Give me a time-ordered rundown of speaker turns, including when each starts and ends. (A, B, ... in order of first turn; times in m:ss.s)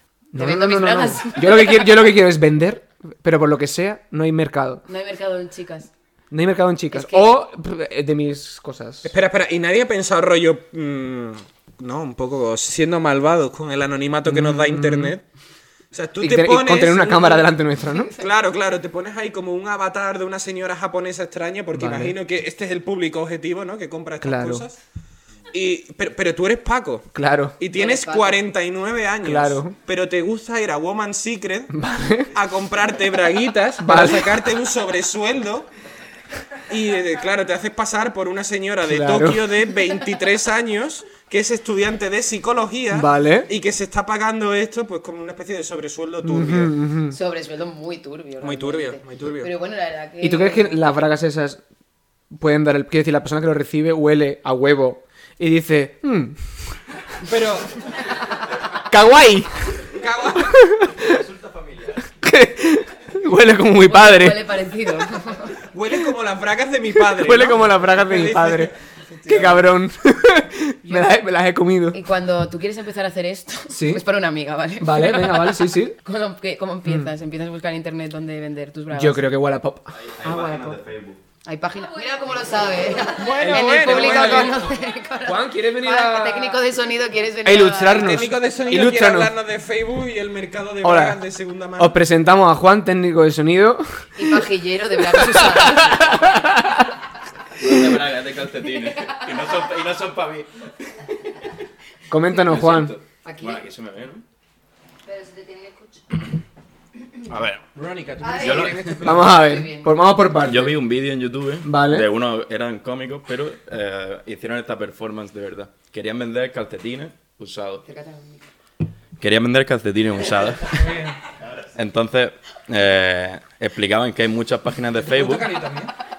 0:00.3-0:04.8 A
0:00.4-0:01.9 B
0:04.9-0:05.9 B
0:06.3-0:09.1 A
0:06.9-0:07.4 B
0:09.0-0:15.2 C
0:14.2-0:15.2 A
0:15.9-0:17.6 C
0:16.2-0:18.1 A
0:18.1-0:24.8 C
0:21.7-0:22.2 A
0:24.2-0:24.6 A
0:25.5-0:31.7 C
0:27.1-0:27.6 A
0:27.7-0:28.5 B
0:29.2-0:29.8 A
0:31.7-0:32.3 A
0:32.3-0:35.7 C
0:33.8-0:34.3 A
0:36.7-0:46.8 C
0:38.9-0:39.5 A
0:42.9-0:43.5 A
0:46.2-0:47.2 A
0:47.1-0:51.0 B
0:48.4-0:49.5 C
0:50.2-0:51.6 A
0:52.3-0:56.5 A
0:57.3-0:57.8 C
0:58.9-0:59.8 A
0:59.9-1:00.6 C
1:00.5-1:01.2 A
1:00.9-1:02.1 D
1:02.2-1:04.4 A
1:03.8-1:05.6 B
1:05.7-1:09.6 C
1:07.2-1:08.7 A
1:09.3-1:12.0 A
1:10.9-1:11.2 B
1:11.9-1:19.3 B
1:13.7-1:14.0 A
1:14.8-1:16.0 A
1:18.9-1:20.0 A
1:19.9-1:21.2 D
1:20.2-1:20.8 B
1:21.4-1:28.3 B
1:21.9-1:23.2 E
1:23.1-1:24.6 C
1:23.4-1:24.5 A
1:25.2-1:26.6 A
1:27.4-1:29.3 A
1:27.9-1:32.0 C
1:30.8-1:31.2 A
1:31.8-1:34.4 A
1:34.2-1:36.4 B
1:35.1-1:36.9 A
1:37.6-1:40.5 D
1:42.1-1:43.0 A
1:42.4-1:44.2 D
1:43.2-1:43.6 B
1:45.0-1:46.2 E
1:47.3-1:47.7 D
1:47.8-1:49.3 C
1:48.2-1:49.0 E
1:48.3-1:49.1 D
1:49.0-1:50.9 A
1:49.1-1:50.0 B
1:50.4-1:57.9 D
1:51.6-1:52.2 A
1:57.9-1:58.4 B
1:59.2-2:01.0 D
2:00.7-2:01.2 C
2:01.6-2:05.6 D
2:05.0-2:05.9 C